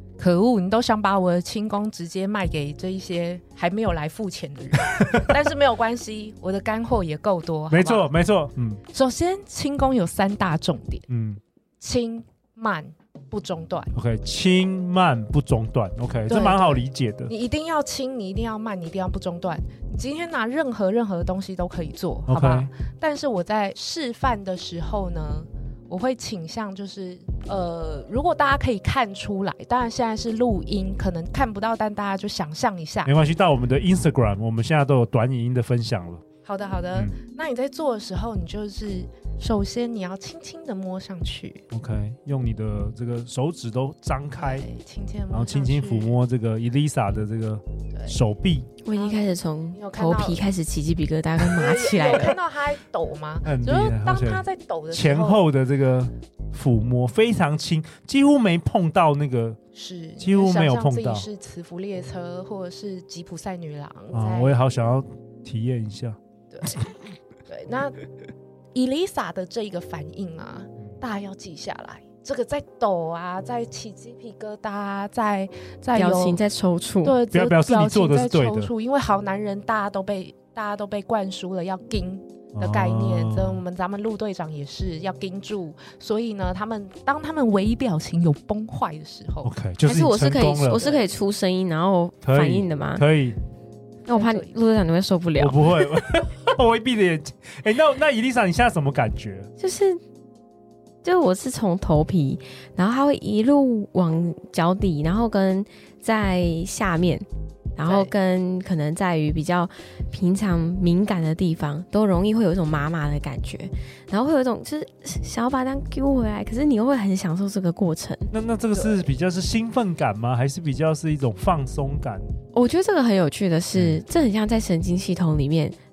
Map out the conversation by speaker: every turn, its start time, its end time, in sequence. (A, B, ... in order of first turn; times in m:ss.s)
0:00.2-0:08.1 A
0:04.8-0:05.4 B
0:07.7-0:08.8 B
0:08.9-0:11.0 A
0:11.1-0:11.4 B
0:11.8-0:13.9 A
0:13.9-0:17.3 B
0:16.3-0:33.1 A
0:22.3-0:22.7 B
0:33.0-0:36.2 B
0:36.4-0:41.6 A
0:41.7-0:44.6 B
0:44.4-0:46.2 A
0:45.3-0:48.7 B
0:48.8-0:52.4 C
0:48.9-0:50.4 A
0:51.4-0:55.4 A
0:53.4-0:59.6 B
0:59.7-1:04.6 A
1:00.2-1:01.3 B
1:04.1-1:06.2 B
1:06.5-1:06.8 A
1:07.5-1:07.9 A
1:08.7-1:16.4 A
1:15.9-1:17.2 C
1:17.0-1:29.5 A
1:17.3-1:18.7 B
1:22.5-1:23.6 B
1:29.4-1:30.9 B
1:29.8-1:33.0 C
1:30.8-1:31.0 A
1:32.2-1:33.4 B
1:34.1-1:35.9 C
1:34.1-1:34.5 A
1:35.4-1:39.5 B
1:39.6-1:40.0 C
1:41.0-1:58.3 C
1:47.8-1:48.1 A
1:58.3-2:02.3 B
1:58.7-1:59.1 A
2:02.5-2:05.8 C
2:03.7-2:04.0 B